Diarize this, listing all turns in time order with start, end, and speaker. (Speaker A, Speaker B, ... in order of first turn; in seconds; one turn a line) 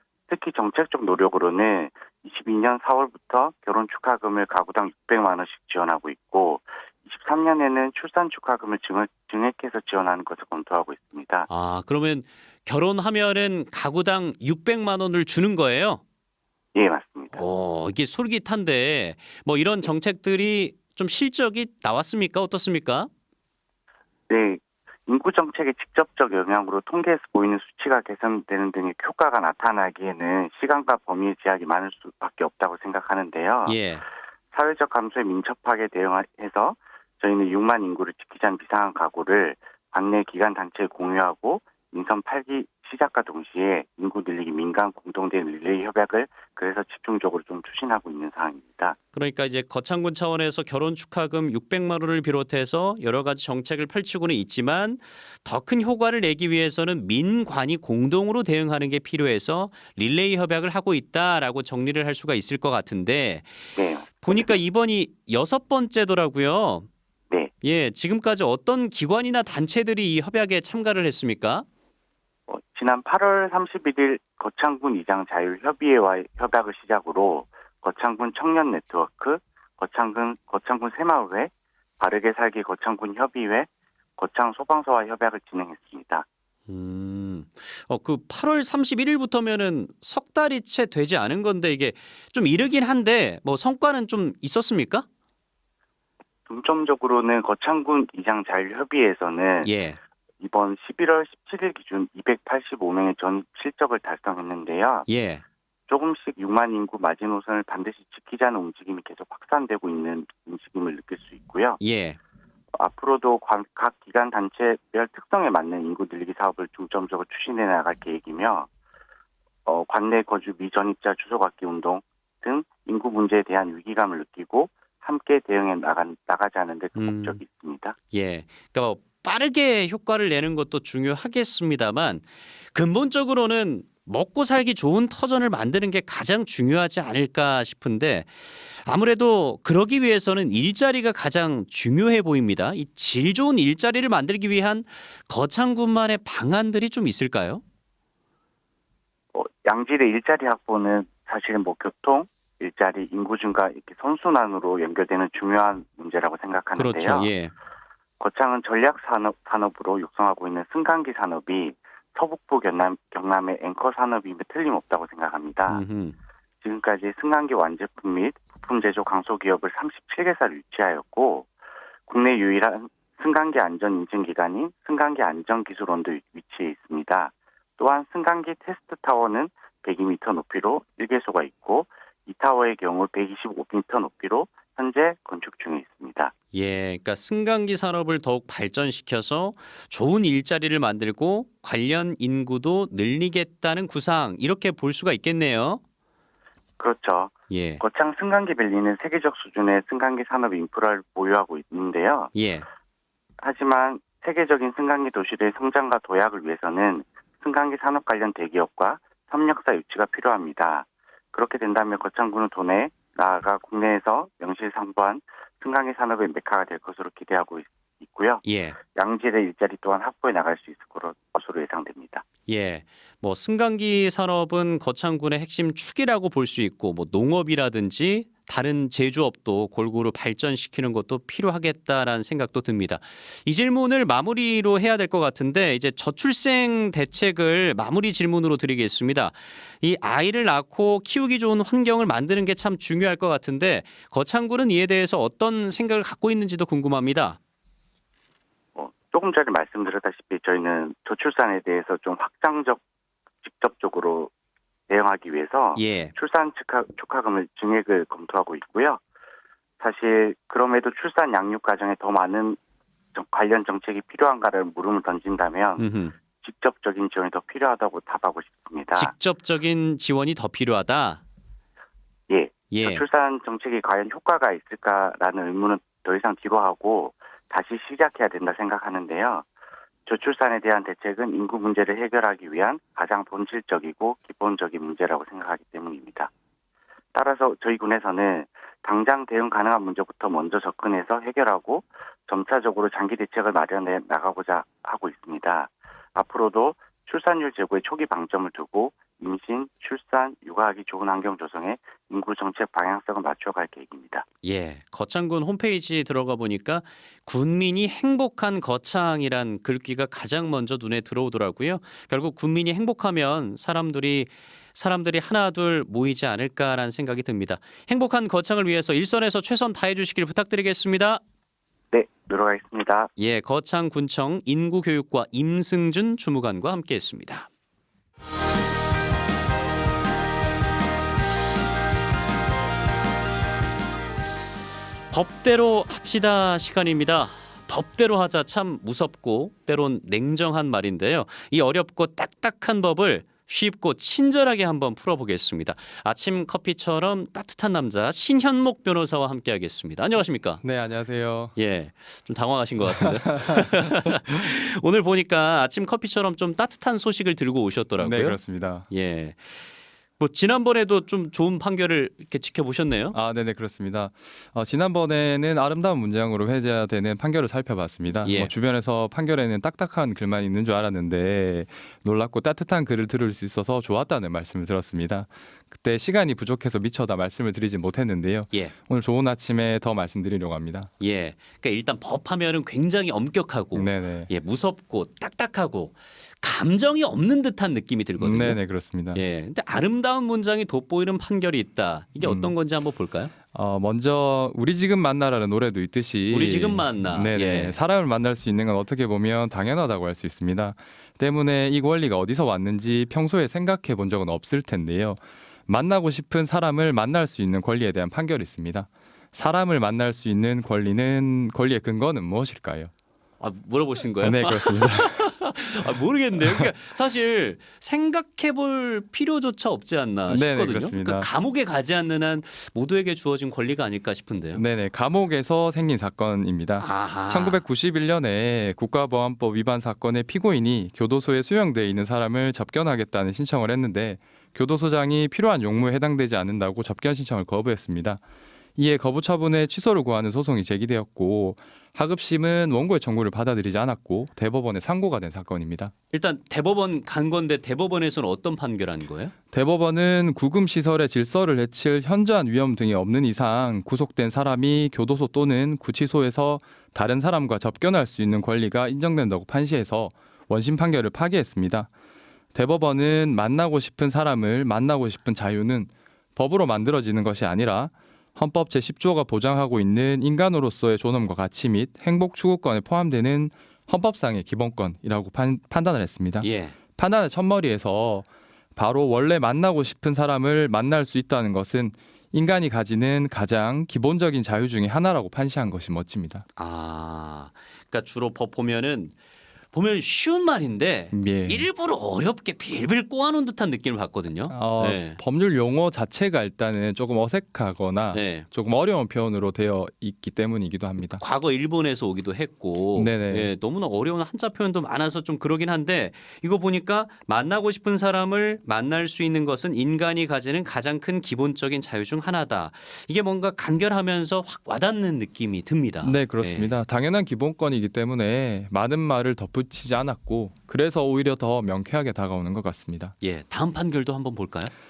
Speaker A: 0.3-11.5
Speaker B: 11.5-16.0
Speaker A: 16.8-17.4
Speaker B: 17.3-23.1
Speaker A: 24.3-33.8
Speaker B: 33.7-34.0
Speaker A: 34.5-49.0
Speaker B: 49.1-63.6
Speaker A: 63.8-64.6
Speaker B: 64.2-66.9
Speaker B: 67.6-71.7
Speaker A: 72.5-86.2
Speaker B: 86.7-95.1
Speaker A: 96.5-99.7
Speaker B: 99.6-100.0
Speaker A: 100.4-105.1
Speaker B: 105.1-105.4
Speaker A: 105.9-111.8
Speaker B: 111.8-112.2
Speaker A: 112.8-118.7
Speaker A: 119.7-128.0
Speaker B: 127.0-127.4
Speaker B: 128.1-147.6
Speaker A: 149.3-157.3
Speaker B: 156.8-157.5
Speaker A: 158.2-165.8
Speaker B: 165.7-166.2
Speaker A: 166.6-171.5
Speaker A: 172.1-186.3
Speaker B: 186.5-195.8
Speaker A: 196.8-202.3
Speaker B: 197.5-197.8
Speaker B: 202.3-202.7
Speaker A: 203.4-218.4
Speaker B: 218.4-218.8
Speaker A: 218.9-222.2
Speaker B: 222.5-247.4
Speaker A: 248.8-252.8
Speaker A: 253.4-254.3
Speaker A: 254.9-259.0
Speaker B: 255.8-256.1
Speaker A: 259.8-262.6
Speaker A: 263.1-265.9
Speaker B: 265.8-266.1
Speaker A: 266.4-269.1
Speaker B: 269.0-271.2
Speaker A: 272.3-279.4
Speaker B: 272.7-273.0
Speaker A: 280.1-286.3
Speaker A: 287.1-304.2
Speaker B: 304.4-321.2
Speaker A: 321.9-323.1
Speaker B: 323.2-327.5
Speaker B: 335.1-350.6
Speaker C: 350.6-351.6
Speaker B: 351.6-363.2
Speaker C: 352.9-353.9
Speaker C: 358.0-358.9
Speaker C: 363.1-380.9
Speaker B: 368.2-368.5
Speaker B: 381.0-388.6
Speaker C: 383.8-384.3
Speaker C: 388.2-389.2
Speaker B: 389.1-393.3
Speaker C: 392.2-392.5
Speaker C: 393.5-412.9
Speaker B: 396.3-397.8
Speaker B: 413.4-424.6
Speaker C: 414.2-415.3
Speaker C: 420.3-421.3
Speaker C: 424.5-438.2
Speaker B: 426.8-427.6
Speaker C: 438.8-445.9
Speaker B: 446.1-449.3
Speaker C: 449.5-461.9
Speaker C: 462.5-486.4
Speaker B: 476.4-476.8
Speaker B: 486.6-489.1
Speaker B: 489.7-495.2
Speaker C: 491.1-491.7
Speaker C: 494.5-501.2
Speaker B: 498.1-498.5
Speaker B: 501.1-516.7
Speaker C: 503.0-503.5
Speaker C: 516.0-523.1
Speaker B: 523.2-524.7